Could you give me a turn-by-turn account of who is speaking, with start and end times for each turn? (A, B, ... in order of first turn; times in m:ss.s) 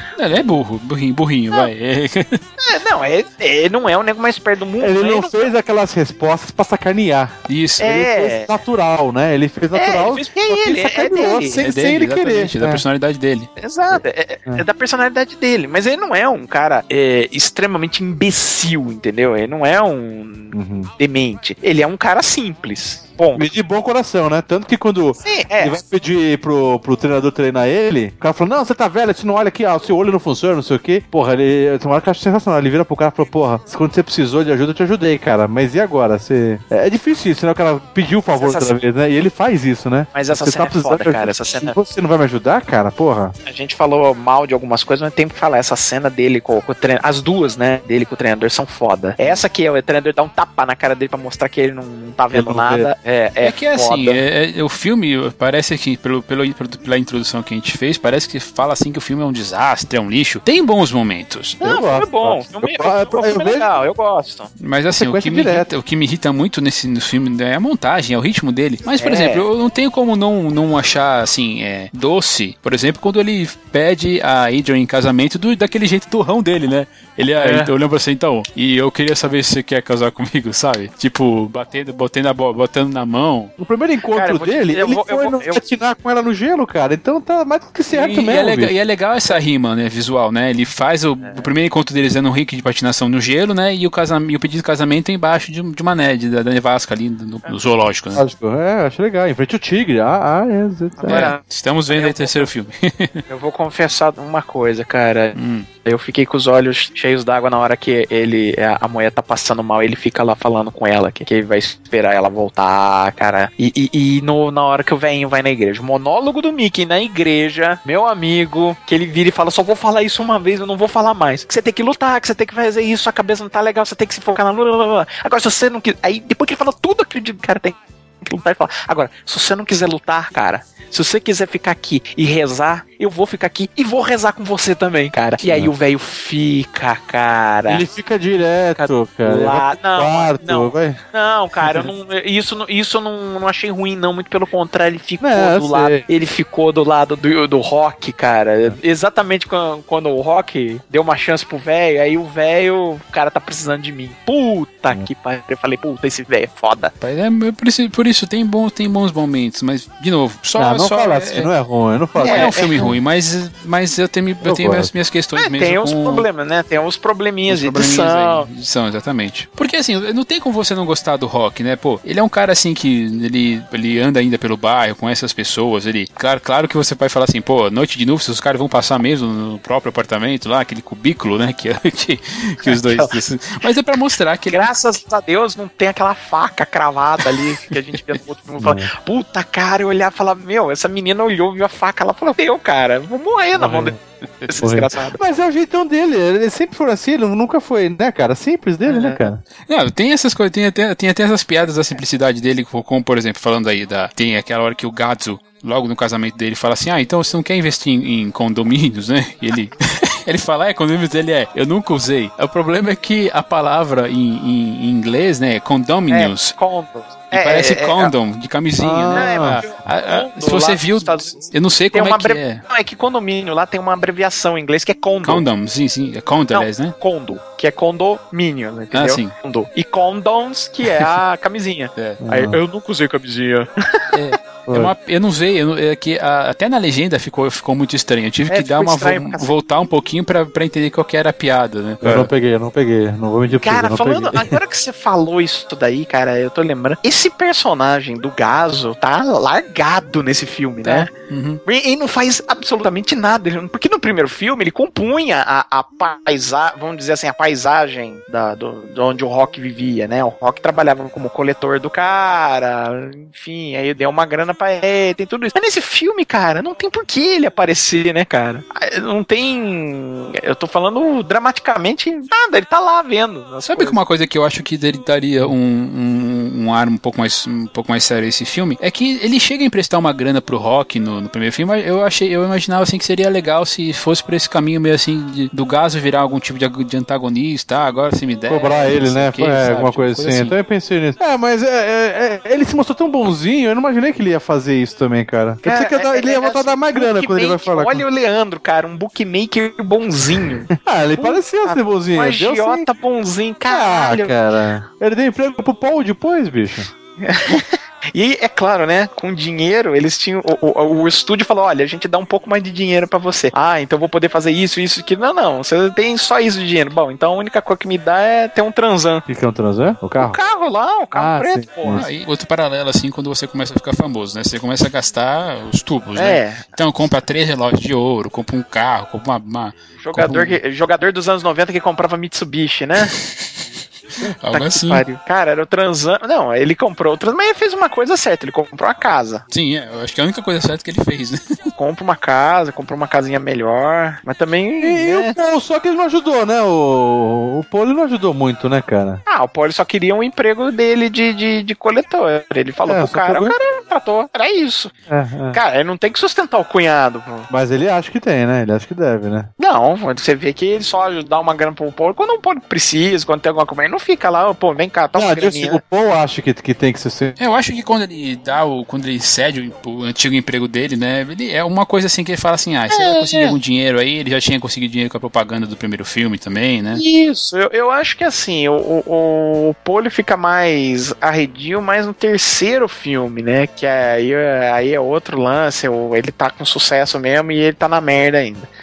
0:00.2-0:02.4 A
0:02.6-0:05.5 B
0:04.8-0:12.8 C
0:07.5-0:07.9 A
0:07.8-0:08.5 B
0:09.7-0:11.6 B
0:11.6-0:13.5 A
0:13.6-0:23.5 B
0:20.5-0:20.9 C
0:23.3-0:43.3 C
0:25.2-0:25.8 B
0:38.3-0:38.7 B
0:40.1-0:41.8 B
0:43.4-0:54.2 B
0:52.3-0:52.9 C
0:53.4-1:01.6 A
1:01.6-1:03.6 C
1:01.6-1:04.5 B
1:04.6-1:23.5 A
1:04.9-1:05.7 C
1:09.0-1:09.4 B
1:17.4-1:17.7 C
1:23.6-1:28.7 C
1:24.1-1:25.6 B
1:27.9-1:38.2 A
1:37.4-1:37.7 B
1:38.1-1:41.3 C
1:41.0-1:41.4 B
1:41.0-1:43.2 A
1:41.9-1:42.5 B
1:43.3-2:17.8 B
1:45.3-1:45.7 A
2:17.7-2:21.0 C
2:18.8-2:36.9 B
2:25.2-2:26.0 C
2:37.0-2:41.5 A
2:40.6-2:42.7 C
2:42.2-2:42.9 B
2:42.2-2:46.2 A
2:44.4-2:44.9 C
2:45.4-2:48.5 B
2:47.5-3:04.7 A
3:02.6-3:03.1 B
3:04.5-3:15.2 B
3:08.6-3:08.9 C
3:13.6-3:13.9 C
3:14.6-3:19.4 C
3:18.9-3:19.3 B
3:19.6-3:36.6 A
3:36.1-3:38.1 B
3:37.3-3:42.6 A
3:38.8-3:39.6 C
3:39.1-3:41.4 B
3:41.9-3:45.4 B
3:45.2-3:46.9 A
3:46.5-3:54.1 B
3:48.9-3:49.3 A
3:52.0-3:52.2 A
3:52.2-3:52.6 C
3:54.1-4:02.3 A
3:54.7-3:54.9 C
3:58.5-3:59.5 B
4:02.0-4:04.6 C
4:03.6-4:11.1 B
4:10.8-4:11.6 A
4:11.6-4:34.0 B
4:33.6-4:50.5 A
4:48.5-4:58.0 C
4:55.6-5:04.3 B
5:00.7-5:02.9 C
5:03.7-5:06.9 C
5:07.2-5:19.2 B
5:19.3-5:20.4 C
5:20.2-5:22.0 B
5:21.1-5:22.0 C
5:21.9-5:30.6 A
5:26.2-5:26.6 B
5:30.0-5:33.1 B
5:33.1-5:33.4 A
5:34.4-5:35.0 A
5:34.5-5:39.4 B
5:39.5-5:41.4 A
5:41.8-5:45.3 B
5:44.8-5:49.2 C
5:49.3-5:54.9 B
5:52.8-5:53.6 C
5:55.1-5:55.6 C
5:55.5-5:57.5 B
5:57.5-5:59.5 C
5:59.6-6:05.8 B
6:05.1-6:07.3 C
6:07.4-6:17.0 A
6:12.9-6:13.6 B
6:16.9-6:28.7 B